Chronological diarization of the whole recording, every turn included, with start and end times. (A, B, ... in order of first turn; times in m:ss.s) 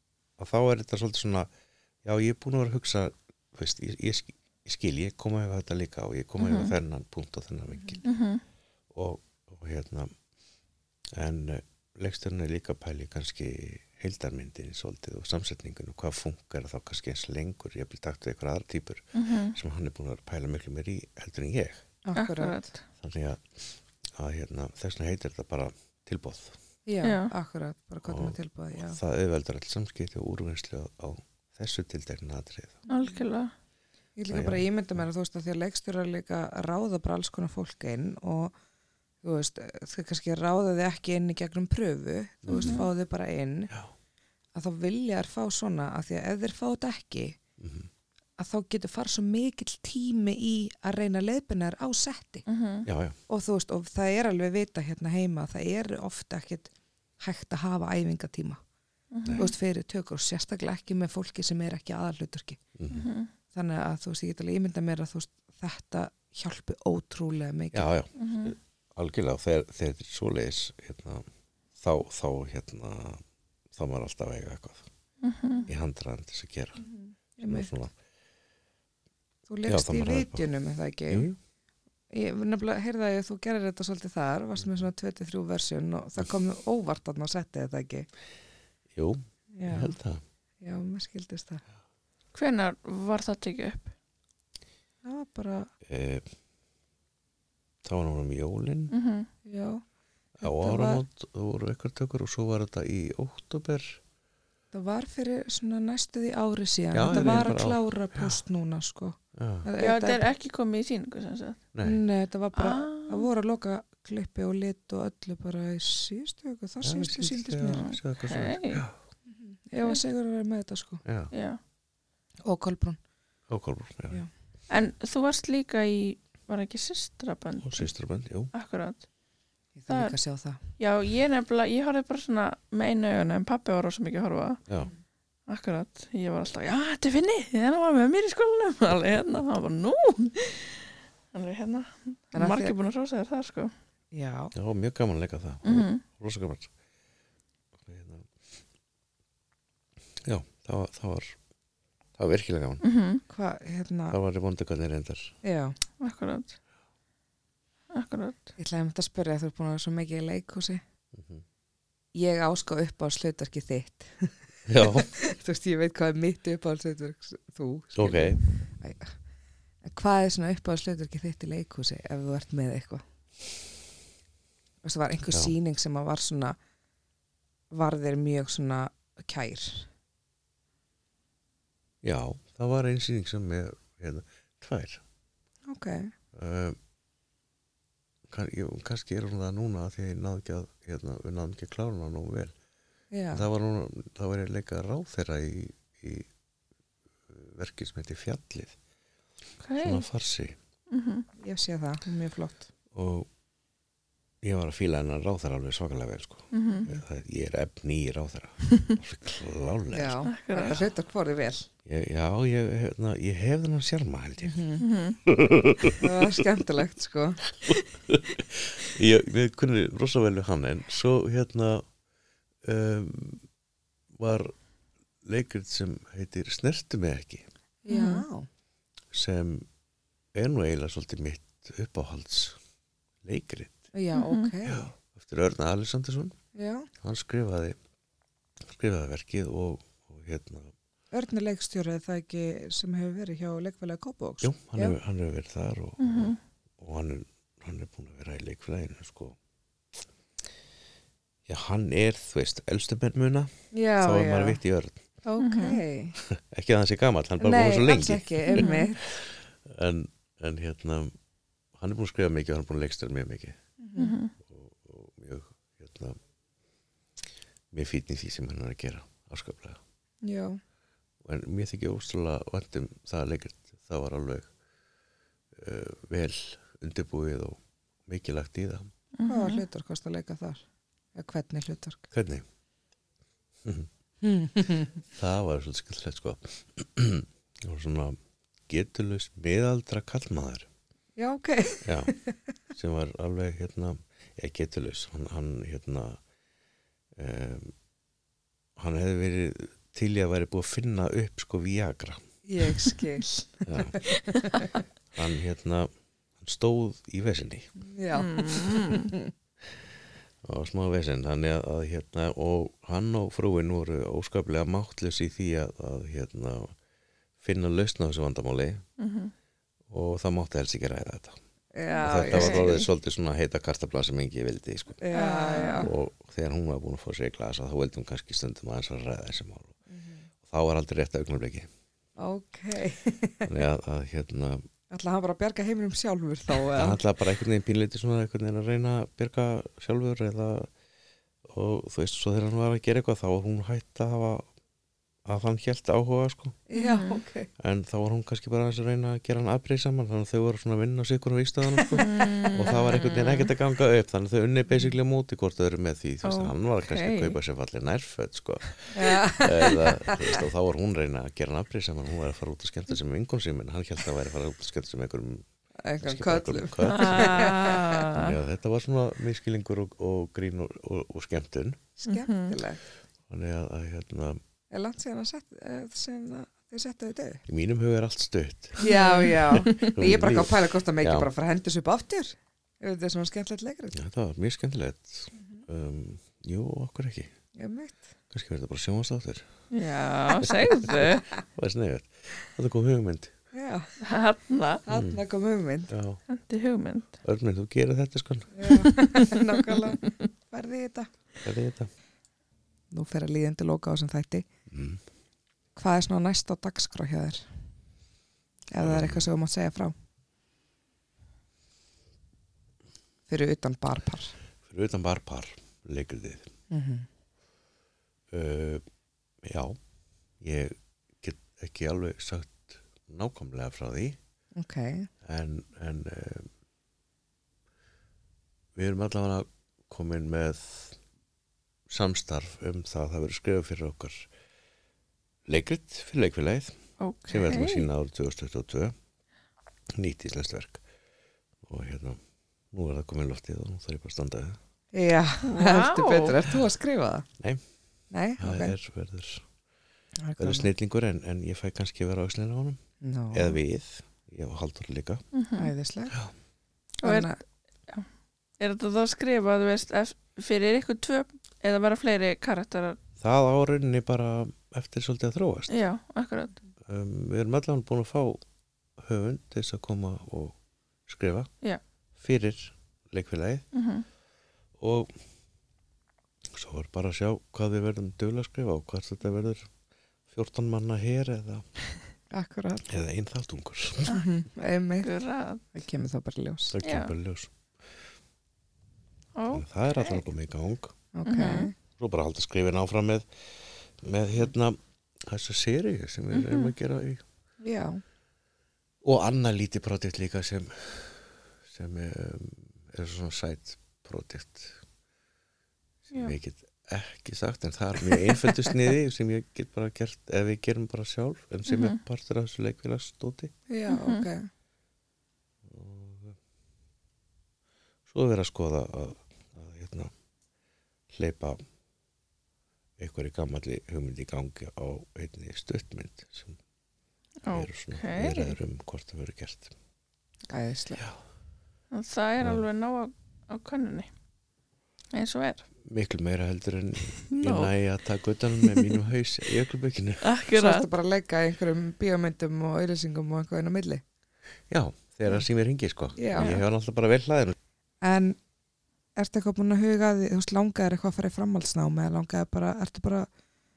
0:00.4-0:01.5 A
0:02.0-0:08.0 A
0:06.4-0:06.7 B
0:08.0-0:08.4 B
0:08.9-0:10.1 A
0:11.1-0:21.8 A
0:19.1-0:19.5 B
0:22.0-0:22.6 C
0:22.1-0:22.8 B
0:23.0-0:26.6 A
0:26.8-0:29.0 C
0:27.0-0:27.3 B
0:28.1-0:32.8 A
0:32.9-0:33.2 C
0:32.9-0:33.5 B
0:34.2-0:38.6 C
0:34.3-0:35.0 A
0:39.2-0:43.7 C
0:42.4-0:42.8 A
0:42.5-0:42.9 B
0:44.5-0:47.4 C
0:47.6-0:47.9 A
0:48.4-0:52.4 C
0:52.4-0:52.9 B
0:52.9-0:53.2 A
0:53.3-0:58.6 C
0:59.1-0:59.5 B
0:59.4-1:02.6 C
1:02.8-1:03.1 A
1:02.9-1:03.3 B
1:03.5-1:07.9 C
1:07.7-1:11.2 A
1:08.2-1:08.5 B
1:11.8-1:13.2 A
1:13.7-1:14.9 A
1:15.2-1:15.6 B
1:15.7-1:16.8 A
1:16.8-1:17.7 C
1:17.4-1:17.9 A
1:19.5-1:21.3 C
1:19.6-1:20.4 A
1:21.1-1:21.4 A
1:22.1-1:28.1 C
1:28.9-1:30.2 A
1:29.5-1:30.0 C
1:30.6-1:31.6 C
1:32.3-1:33.9 B
1:35.0-1:35.7 C
1:35.8-1:36.3 A
1:37.8-1:38.9 A
1:38.9-1:39.3 B
1:39.4-1:39.8 C
1:40.4-1:44.0 A
1:40.4-1:41.0 C
1:44.7-1:50.3 C
1:46.9-1:48.4 A
1:47.1-1:47.4 B
1:49.3-1:49.7 A
1:49.8-1:51.6 B
1:51.7-1:52.0 A
1:51.8-1:57.9 C
1:52.5-1:53.3 B
1:56.8-1:58.9 A
1:57.7-1:58.8 B
1:59.3-2:01.0 C
2:01.0-2:01.3 A
2:01.3-2:01.6 B
2:02.4-2:03.0 C
2:03.5-2:04.2 A
2:04.7-2:07.9 B
2:07.6-2:08.5 A
2:08.5-2:09.0 B
2:09.7-2:10.6 C
2:09.9-2:10.1 B
2:10.8-2:14.6 B
2:15.5-2:23.7 B
2:22.3-2:22.7 C
2:24.1-2:24.5 C
2:24.5-2:26.7 A
2:25.6-2:26.0 B
2:27.8-2:28.3 A
2:30.2-2:31.4 A
2:32.2-2:32.8 A
2:32.8-2:33.2 B
2:33.3-2:34.2 C
2:34.1-2:35.3 A
2:35.4-2:35.8 C
2:36.0-2:36.6 B
2:37.9-2:38.5 B
2:38.6-2:40.8 C
2:41.1-2:41.4 A
2:42.1-2:49.2 C
2:44.7-2:45.1 A
2:48.0-2:48.4 A
2:49.8-2:53.0 C
2:54.8-2:56.6 C
2:57.7-2:59.9 C
3:02.0-3:05.0 A
3:05.6-3:06.1 C
3:06.3-3:06.8 A
3:08.3-3:12.5 A
3:13.1-3:13.5 C
3:13.3-3:16.3 A
3:17.3-3:18.8 A
3:19.6-3:20.0 B
3:19.8-3:20.6 A
3:20.9-3:21.3 B
3:21.4-3:22.7 C
3:22.9-3:23.3 A
3:24.4-3:30.8 A
3:26.5-3:26.9 B
3:29.9-3:31.7 C
3:30.2-3:30.8 B
3:31.8-3:34.6 A
3:34.4-3:34.8 C
3:34.8-3:35.2 B
3:35.2-3:36.2 A
3:36.0-3:37.4 C
3:37.6-3:41.8 A
3:42.6-3:43.4 A
3:44.2-3:44.5 A
3:45.2-3:47.4 A
3:47.8-3:48.5 C
3:47.9-3:48.2 B
3:49.1-3:49.7 A
3:50.3-3:52.6 A
3:53.2-3:53.9 A
3:53.9-3:54.9 C
3:54.1-3:54.5 B
3:54.6-3:56.4 A
3:56.5-3:56.9 C
3:57.0-3:57.8 A
3:58.7-4:00.7 A
4:01.1-4:05.0 C
4:04.4-4:09.4 A
4:06.0-4:06.4 B
4:11.5-4:15.0 A
4:13.7-4:14.6 C
4:15.2-4:16.2 C
4:15.4-4:15.8 B
4:16.2-4:21.1 A
4:17.4-4:19.1 C
4:18.5-4:18.9 B
4:21.8-4:23.6 A
4:23.8-4:24.1 C
4:24.0-4:24.3 B
4:24.4-4:26.2 A
4:27.7-4:29.8 A
4:30.2-4:30.6 C
4:31.2-4:34.5 A
4:35.5-4:38.9 A
4:39.2-4:39.6 B
4:39.2-4:42.1 C
4:42.1-4:42.4 A
4:44.2-4:45.0 C
4:45.1-4:48.2 A
4:48.7-4:50.7 A
4:51.2-4:52.4 C
4:51.8-4:52.1 A
4:52.7-4:56.2 A
4:57.2-4:57.7 A
4:58.8-5:02.2 A
5:02.4-5:04.7 C
5:03.6-5:04.0 A
5:04.0-5:04.7 B
5:05.1-5:05.9 A
5:06.4-5:07.7 A
5:07.8-5:09.3 C
5:08.1-5:09.1 B
5:10.4-5:16.7 A
5:17.4-5:18.8 A
5:19.0-5:19.3 B
5:19.9-5:21.4 A
5:21.7-5:22.9 C
5:21.9-5:22.8 B
5:22.0-5:25.0 A
5:25.0-5:25.9 C
5:25.1-5:25.9 B
5:25.8-5:29.8 A
5:29.9-5:30.3 C
5:30.4-5:31.7 A
5:32.2-5:33.6 C
5:33.4-5:34.6 A
5:34.9-5:37.0 C
5:36.7-5:40.7 A
5:41.4-5:44.5 A
5:45.3-5:46.6 A
5:46.7-5:47.5 C
5:46.7-5:47.2 B
5:47.6-6:05.4 A
5:51.8-5:52.7 C
5:52.0-5:53.5 B
5:56.2-5:57.4 B
5:58.9-6:00.4 C
6:05.8-6:08.1 C
6:06.0-6:11.9 A
6:06.8-6:08.4 B
6:12.0-6:12.8 C
6:12.1-6:12.6 B
6:13.3-6:14.4 A
6:14.7-6:17.4 C
6:17.5-6:21.3 A
6:18.8-6:24.0 C
6:18.8-6:19.9 B
6:23.9-6:27.3 A
6:25.4-6:25.6 C
6:27.5-6:28.1 C
6:28.3-6:29.4 A
6:29.7-6:31.3 B
6:30.5-6:31.0 A
6:31.5-6:33.3 A
6:33.5-6:33.9 C
6:34.0-6:34.8 B
6:34.8-6:35.9 C
6:34.9-6:35.2 A
6:35.9-6:36.2 A
6:36.3-6:37.1 B
6:37.2-6:38.7 A
6:38.5-6:41.1 C
6:38.7-6:39.8 B
6:41.4-6:41.9 A
6:42.9-6:44.5 C
6:44.7-6:45.0 A
6:45.8-6:47.5 C
6:48.7-6:49.9 C
6:48.8-6:49.3 A
6:53.3-6:54.3 C
6:54.7-6:56.5 A
6:56.7-6:57.1 C
6:58.3-6:58.8 A
6:59.4-6:59.8 A
7:00.4-7:04.2 A
7:04.5-7:05.1 C
7:05.2-7:06.5 A
7:08.8-7:11.0 A
7:11.9-7:14.3 A
7:15.5-7:18.9 A
7:17.0-7:17.8 B
7:19.9-7:20.8 A
7:21.6-7:22.2 A
7:22.7-7:24.6 A
7:24.9-7:27.3 C
7:25.4-7:26.4 B
7:28.1-7:28.7 C
7:28.4-7:29.4 A
7:30.2-7:30.7 C
7:30.4-7:32.8 A
7:33.0-7:33.6 C
7:33.3-7:35.2 A
7:35.3-7:35.7 B
7:35.6-7:36.2 C
7:37.0-7:37.3 B
7:37.0-7:37.4 C
7:38.6-7:43.0 B
7:43.2-7:45.8 A
7:45.7-7:46.6 B
7:46.8-7:48.4 A
7:49.0-7:51.5 A
7:52.2-7:53.6 A
7:53.7-7:54.0 B
7:54.8-7:55.1 A
7:56.5-7:59.7 A
8:00.3-8:01.7 A
8:02.3-8:03.0 C
8:02.9-8:04.2 A
8:04.1-8:05.1 C
8:05.0-8:05.6 B
8:05.7-8:06.7 C
8:06.7-8:07.5 A
8:06.8-8:07.1 B
8:09.4-8:09.6 B
8:09.5-8:11.0 A
8:11.1-8:11.7 C
8:11.2-8:11.7 B
8:12.0-8:13.5 A
8:14.0-8:17.2 A
8:16.3-8:16.7 B
8:17.6-8:18.0 C
8:19.0-8:24.8 A
8:26.0-8:33.5 A
8:31.7-8:32.0 B
8:33.7-8:34.5 C
8:33.9-8:34.2 B
8:35.6-8:36.4 A
8:38.1-8:40.1 A
8:41.1-8:41.6 A
8:43.0-8:46.6 A
8:47.4-8:48.6 B
8:47.5-8:49.7 A
8:50.5-8:51.0 C
8:51.9-8:54.1 B
8:55.1-8:55.6 B
8:55.8-9:00.3 A
8:57.3-8:57.7 B
8:58.6-8:59.0 B
9:00.2-9:00.9 B
9:00.5-9:04.0 C
9:04.7-9:07.5 A
9:06.2-9:06.5 C
9:06.4-9:06.6 B
9:08.0-9:08.4 C
9:09.2-9:13.3 C